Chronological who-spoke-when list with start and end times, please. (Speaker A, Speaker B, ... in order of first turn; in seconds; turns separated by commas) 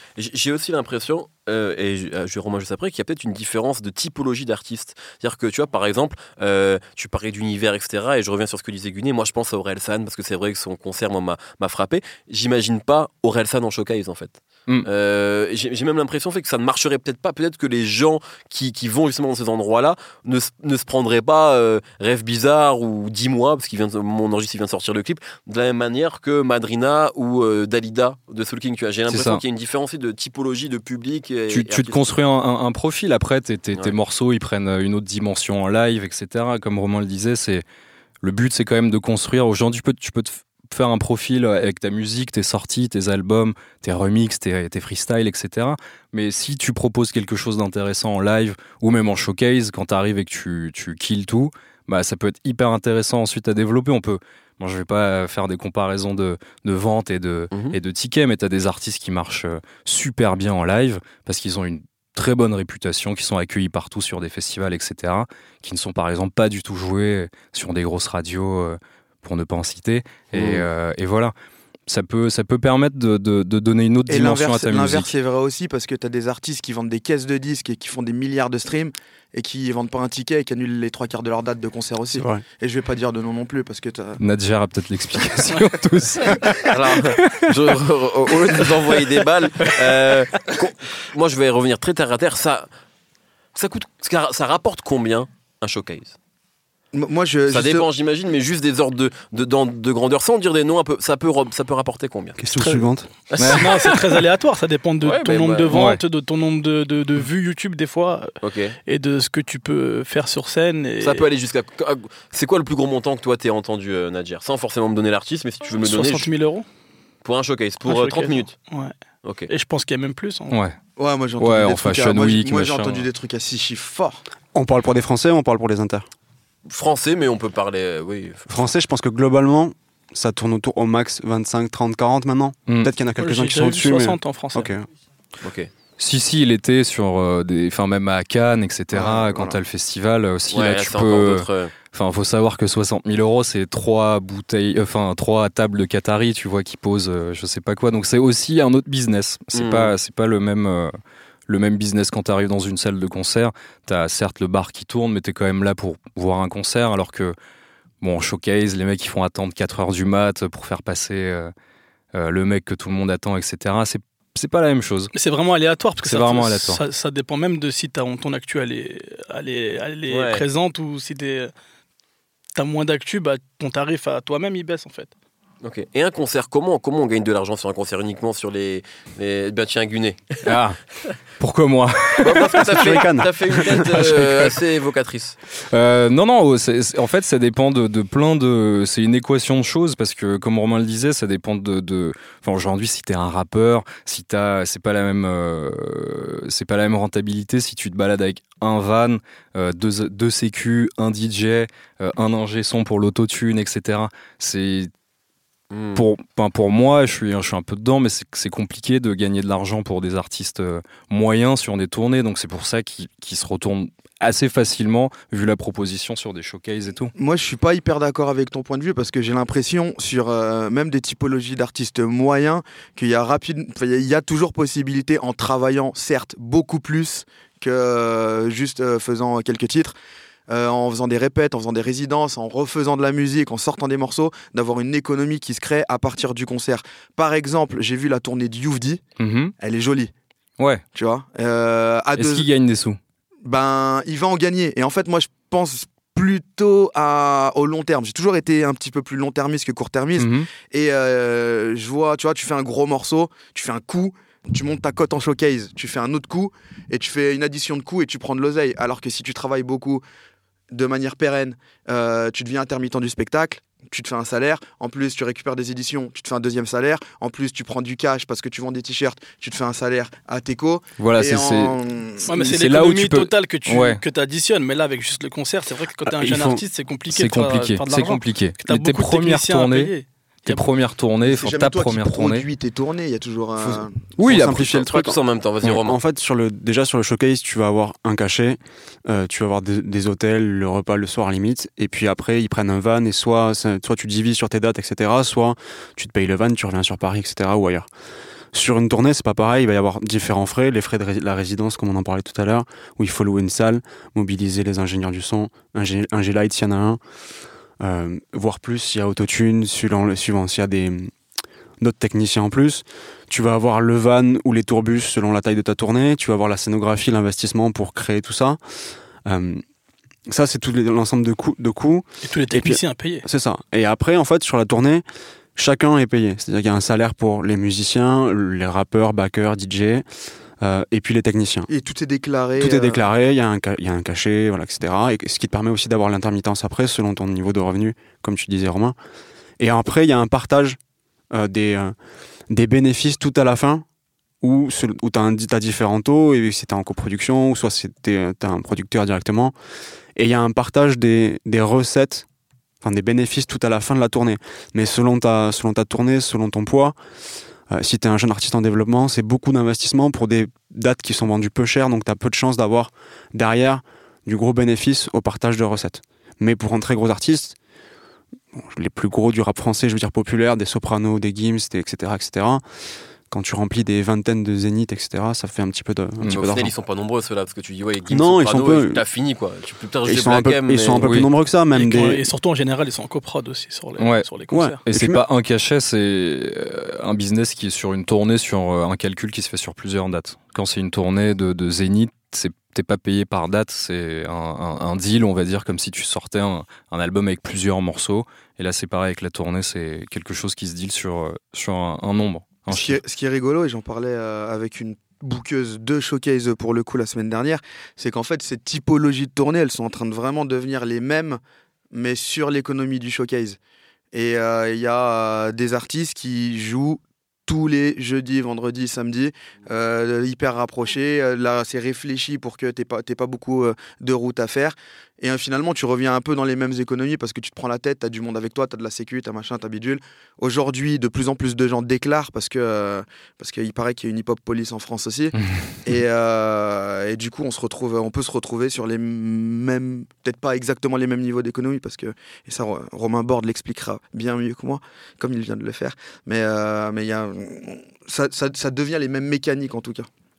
Speaker A: 0.2-32.1, Speaker B: 29.1-29.4, Speaker B: 31.5-37.6, Speaker B: 38.2-71.3, Speaker A: 57.5-57.8, Speaker A: 70.3-70.7, Speaker B: 71.9-75.1, Speaker C: 74.1-84.2, Speaker D: 82.1-82.4, Speaker B: 84.2-87.6, Speaker A: 86.7-92.7, Speaker B: 88.5-89.0, Speaker B: 89.8-90.2, Speaker A: 93.5-96.2, Speaker C: 96.9-97.9, Speaker A: 97.5-102.4, Speaker D: 102.4-103.1, Speaker E: 102.5-108.3, Speaker A: 103.3-104.2, Speaker B: 103.4-103.7, Speaker A: 105.0-105.8, Speaker B: 105.7-106.0, Speaker A: 108.4-108.8, Speaker E: 108.8-111.2, Speaker A: 111.0-116.3, Speaker E: 115.8-116.7, Speaker A: 117.2-118.5, Speaker E: 117.8-118.9, Speaker A: 119.2-119.5, Speaker E: 119.5-120.6, Speaker C: 121.0-124.2, Speaker B: 121.4-123.1, Speaker D: 124.5-126.1, Speaker A: 126.7-128.7, Speaker D: 128.5-134.9, Speaker E: 133.2-134.7, Speaker A: 135.4-135.7, Speaker B: 136.0-150.9, Speaker C: 138.9-139.5, Speaker A: 140.5-141.7, Speaker A: 149.5-149.9, Speaker B: 151.5-157.3, Speaker B: 158.0-161.5, Speaker B: 162.1-165.1, Speaker E: 165.1-171.5, Speaker B: 166.0-166.8, Speaker A: 170.1-170.4, Speaker E: 172.5-175.1, Speaker A: 175.6-180.4, Speaker B: 180.4-180.8, Speaker B: 181.4-183.0, Speaker A: 182.2-185.4, Speaker D: 182.6-184.3, Speaker B: 183.6-184.4, Speaker B: 185.6-204.9, Speaker A: 205.7-206.0, Speaker B: 205.9-217.1, Speaker C: 217.1-229.9, Speaker C: 230.5-239.0, Speaker B: 239.2-239.5, Speaker C: 239.6-240.1, Speaker B: 240.6-240.8, Speaker C: 240.9-242.5, Speaker B: 242.1-243.0, Speaker C: 243.4-260.0, Speaker B: 250.2-250.5, Speaker C: 260.7-272.4, Speaker B: 271.0-271.7, Speaker E: 272.2-280.7, Speaker B: 272.3-274.0, Speaker D: 276.1-276.6, Speaker B: 277.1-279.9, Speaker B: 280.5-282.5, Speaker C: 281.2-284.6, Speaker B: 284.2-285.7, Speaker D: 284.2-284.6, Speaker A: 284.5-286.0, Speaker D: 285.7-297.9, Speaker D: 298.5-307.0, Speaker D: 307.8-311.1, Speaker D: 311.8-318.6, Speaker D: 319.2-319.6, Speaker D: 320.3-325.0, Speaker E: 322.2-323.2, Speaker D: 325.6-330.0, Speaker D: 330.6-331.7, Speaker C: 331.7-333.0, Speaker D: 332.6-338.9, Speaker D: 339.6-340.8, Speaker D: 341.3-341.9, Speaker D: 342.5-343.8, Speaker D: 344.4-349.5, Speaker D: 350.1-352.2, Speaker D: 352.8-356.9, Speaker D: 357.7-367.6, Speaker D: 368.6-372.6, Speaker D: 373.3-376.7, Speaker B: 376.2-376.6, Speaker A: 376.3-381.0, Speaker D: 378.1-379.0, Speaker D: 380.0-382.2, Speaker B: 381.0-381.3, Speaker E: 381.7-384.8, Speaker B: 384.0-384.3, Speaker D: 384.5-385.2, Speaker B: 384.8-403.0, Speaker C: 402.7-411.4, Speaker C: 411.9-413.6, Speaker C: 414.1-450.1, Speaker B: 435.4-435.7